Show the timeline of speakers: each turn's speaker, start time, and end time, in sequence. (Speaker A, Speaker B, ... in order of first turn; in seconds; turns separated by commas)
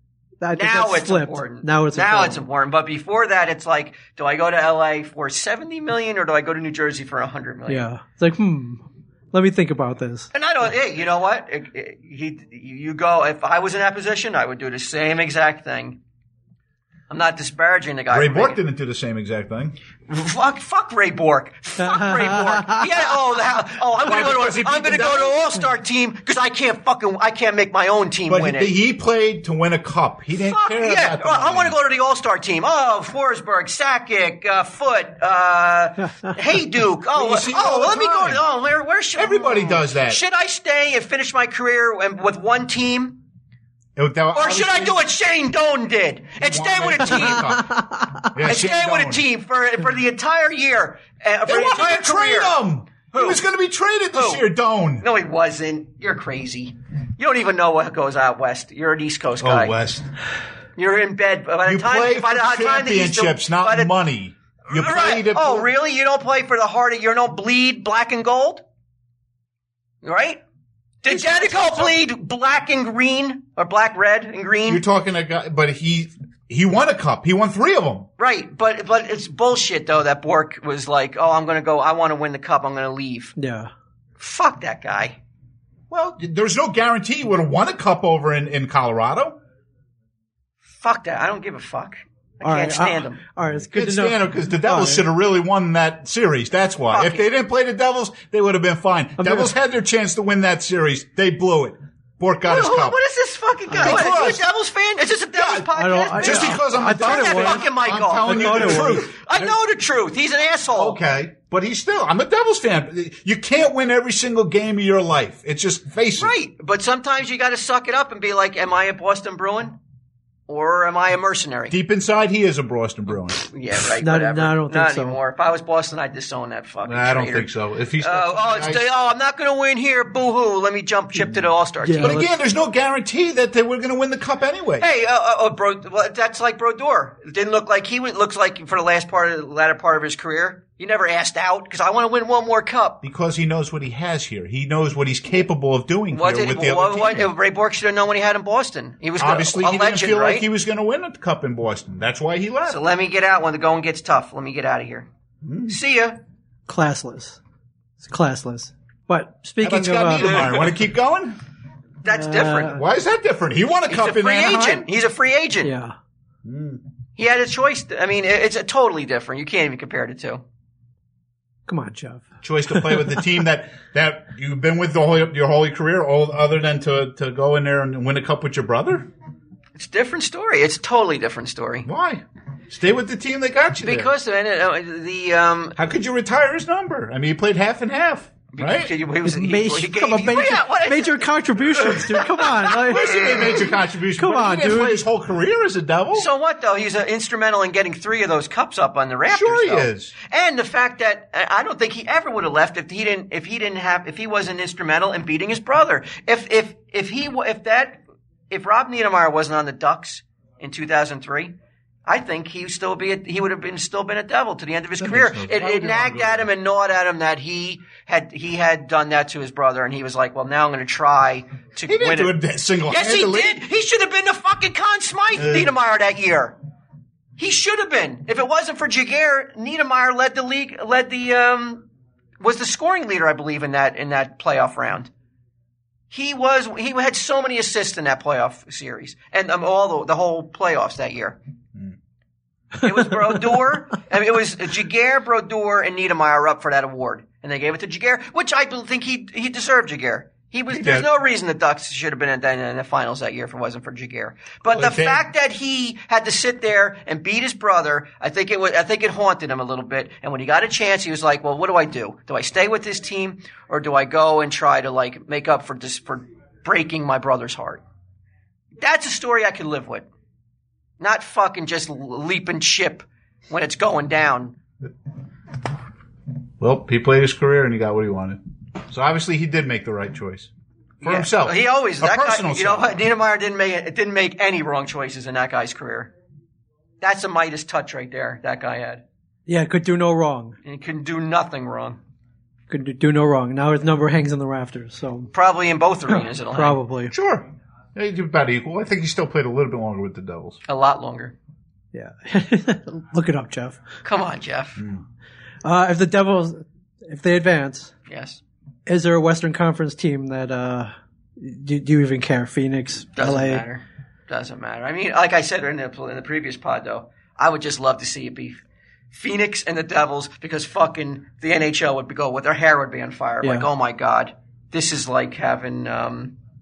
Speaker A: 0.4-2.4, Speaker B: 0.6-7.9, Speaker A: 7.7-10.3, Speaker B: 10.3-16.0, Speaker B: 17.1-18.6, Speaker C: 18.1-19.8, Speaker B: 20.1-28.7, Speaker A: 21.8-22.8, Speaker C: 24.0-25.4, Speaker C: 28.3-31.8, Speaker B: 30.4-43.2, Speaker C: 37.1-38.4, Speaker C: 39.2-40.2, Speaker C: 44.0-45.0, Speaker B: 44.3-47.6, Speaker C: 46.4-47.8, Speaker C: 48.3-49.2, Speaker B: 48.4-53.4, Speaker C: 51.5-55.1, Speaker B: 54.1-54.5, Speaker B: 55.0-59.8, Speaker C: 59.4-60.1, Speaker B: 60.8-63.9, Speaker C: 61.7-65.7, Speaker B: 64.7-68.6, Speaker B: 70.0-70.4, Speaker B: 71.0-74.8, Speaker C: 71.1-71.9, Speaker C: 74.7-78.1, Speaker B: 78.2-83.3, Speaker A: 83.4-83.7, Speaker B: 84.2-85.2, Speaker C: 85.9-89.4, Speaker B: 90.7-93.2, Speaker A: 92.4-95.1, Speaker C: 93.6-103.0, Speaker B: 96.9-97.3, Speaker A: 99.2-99.5, Speaker B: 102.5-111.0, Speaker A: 103.7-104.3, Speaker C: 103.8-104.4, Speaker C: 105.3-109.2, Speaker A: 105.8-107.7, Speaker A: 108.3-109.1, Speaker C: 110.8-116.3, Speaker B: 116.2-119.8, Speaker B: 120.5-121.8, Speaker C: 121.7-123.4, Speaker B: 123.4-132.2, Speaker A: 124.0-125.2, Speaker C: 126.8-128.9, Speaker A: 131.8-132.3, Speaker C: 132.0-134.9, Speaker B: 134.8-143.0, Speaker C: 143.0-147.3, Speaker B: 146.1-150.5, Speaker C: 149.2-152.8, Speaker B: 152.7-155.1, Speaker C: 155.4-155.8, Speaker B: 155.7-156.2, Speaker A: 156.7-157.4, Speaker A: 158.0-160.4, Speaker C: 159.6-161.4, Speaker B: 160.2-160.7, Speaker B: 162.0-162.8, Speaker A: 162.1-162.8, Speaker C: 162.6-164.9, Speaker B: 163.9-165.7, Speaker A: 165.6-165.9, Speaker C: 166.4-166.8, Speaker B: 167.2-170.4, Speaker A: 171.7-173.2, Speaker C: 172.4-179.1, Speaker B: 179.8-181.9, Speaker C: 181.8-184.1, Speaker B: 183.8-185.8, Speaker C: 185.8-188.9, Speaker B: 188.5-193.6, Speaker A: 189.2-193.3, Speaker C: 192.9-196.3, Speaker A: 194.2-195.0, Speaker B: 196.1-208.0, Speaker C: 199.3-200.1, Speaker B: 208.5-211.6, Speaker B: 212.1-226.6, Speaker C: 215.0-216.5, Speaker C: 221.9-223.6, Speaker C: 225.4-225.7, Speaker B: 227.4-231.8, Speaker B: 232.4-235.1, Speaker B: 236.1-241.4, Speaker B: 242.8-267.8, Speaker C: 250.7-251.1, Speaker C: 254.7-255.2, Speaker B: 268.8-270.1, Speaker B: 271.0-274.6, Speaker C: 276.6-280.5, Speaker C: 281.0-283.0, Speaker B: 281.0-286.1, Speaker B: 287.0-289.0, Speaker A: 289.5-290.6, Speaker B: 290.6-292.0, Speaker A: 292.7-295.3, Speaker B: 295.3-296.8, Speaker A: 296.1-297.1, Speaker C: 297.1-300.6, Speaker B: 300.7-301.4, Speaker A: 301.9-303.8, Speaker B: 304.0-304.8, Speaker A: 305.6-307.9, Speaker B: 308.1-308.4, Speaker A: 308.9-313.6, Speaker B: 313.2-318.6, Speaker B: 319.1-326.4, Speaker A: 323.4-323.7